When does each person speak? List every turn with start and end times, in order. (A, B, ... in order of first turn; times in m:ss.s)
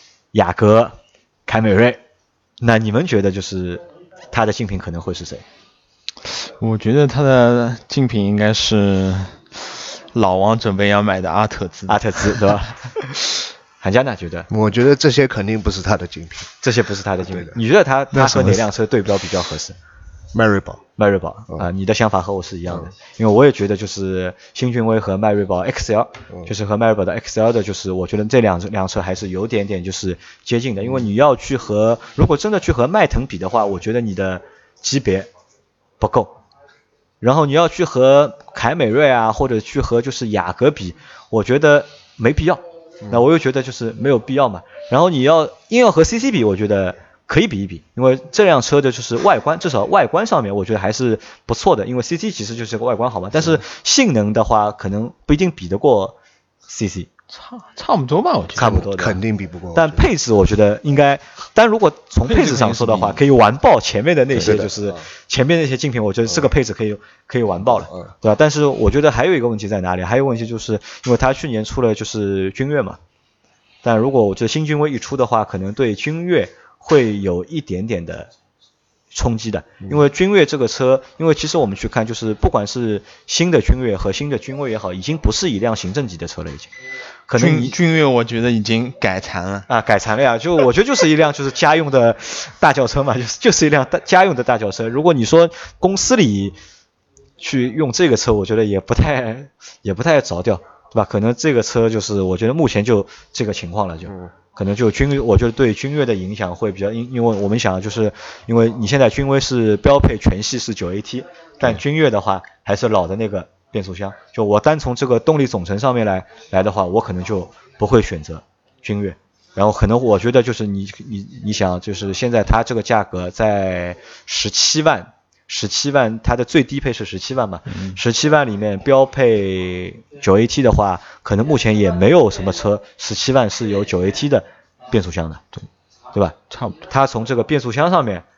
0:00.3-0:02.0 A
0:02.6-0:05.4 A
0:06.2-0:12.6 B
0:11.9-0:13.2 A
0:13.8-0:14.5 A
0:14.5-0:16.5 C
0:16.6-0:19.7 A
0:17.3-0:17.6 C
0:18.1-0:18.6 B
0:20.3-0:20.8 C
0:21.0-0:35.3 A
0:36.0-0:36.4 A
0:37.2-0:56.2 A
0:56.7-0:57.1 A
0:57.3-0:58.8 B
0:58.6-0:59.2 A
0:58.6-1:00.1 C
0:59.7-1:13.0 A
1:02.3-1:03.2 B
1:04.4-1:05.0 C
1:13.8-1:18.3 A
1:19.1-1:26.7 A
1:27.3-1:27.7 A
1:27.4-1:29.7 B
1:29.7-1:36.6 A
1:37.4-2:15.4 A
2:07.7-2:08.0 B
2:16.1-2:18.2 A
2:16.5-2:16.8 B